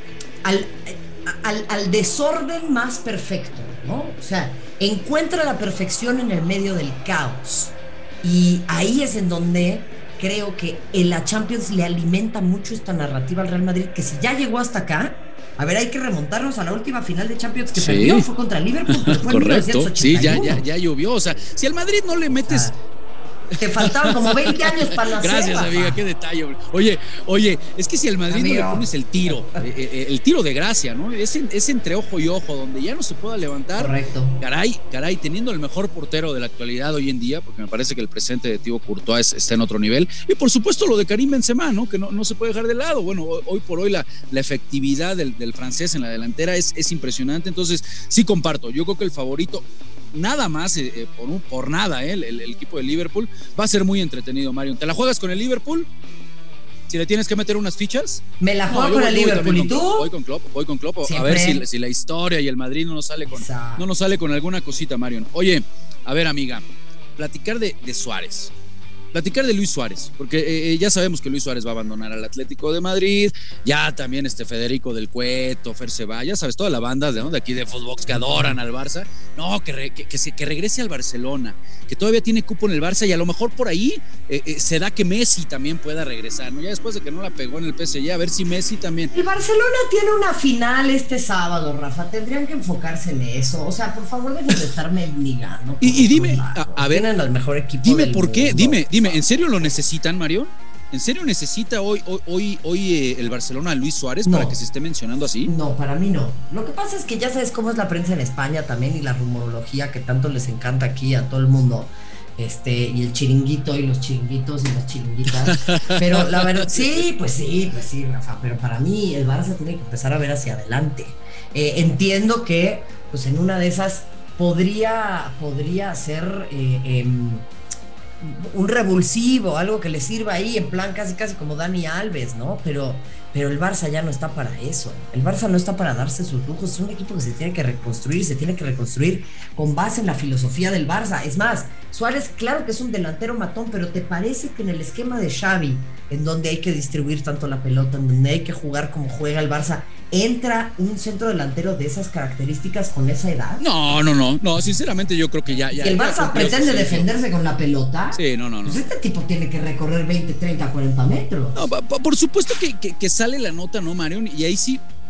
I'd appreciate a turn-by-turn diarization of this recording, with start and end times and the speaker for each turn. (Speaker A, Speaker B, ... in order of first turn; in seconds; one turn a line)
Speaker A: 0.4-20.6
Speaker B: 17.8-18.3
Speaker B: 18.9-22.7
Speaker A: 22.3-22.8
Speaker B: 23.5-55.9
Speaker A: 23.6-26.0
Speaker A: 28.3-29.6
Speaker A: 33.8-34.4
Speaker B: 56.9-66.6
Speaker A: 58.4-60.1
Speaker A: 61.0-61.6
Speaker A: 63.3-63.9
Speaker B: 67.2-68.5
Speaker B: 69.1-89.1
Speaker A: 78.2-78.5
Speaker A: 89.1-99.8
Speaker B: 95.8-97.1
Speaker B: 97.8-105.5
Speaker A: 104.2-104.6
Speaker A: 105.5-127.5
Speaker B: 115.5-117.0
Speaker A: 128.2-153.6
Speaker B: 153.6-157.1
Speaker A: 155.5-161.6
Speaker B: 158.1-158.8
Speaker B: 161.5-164.8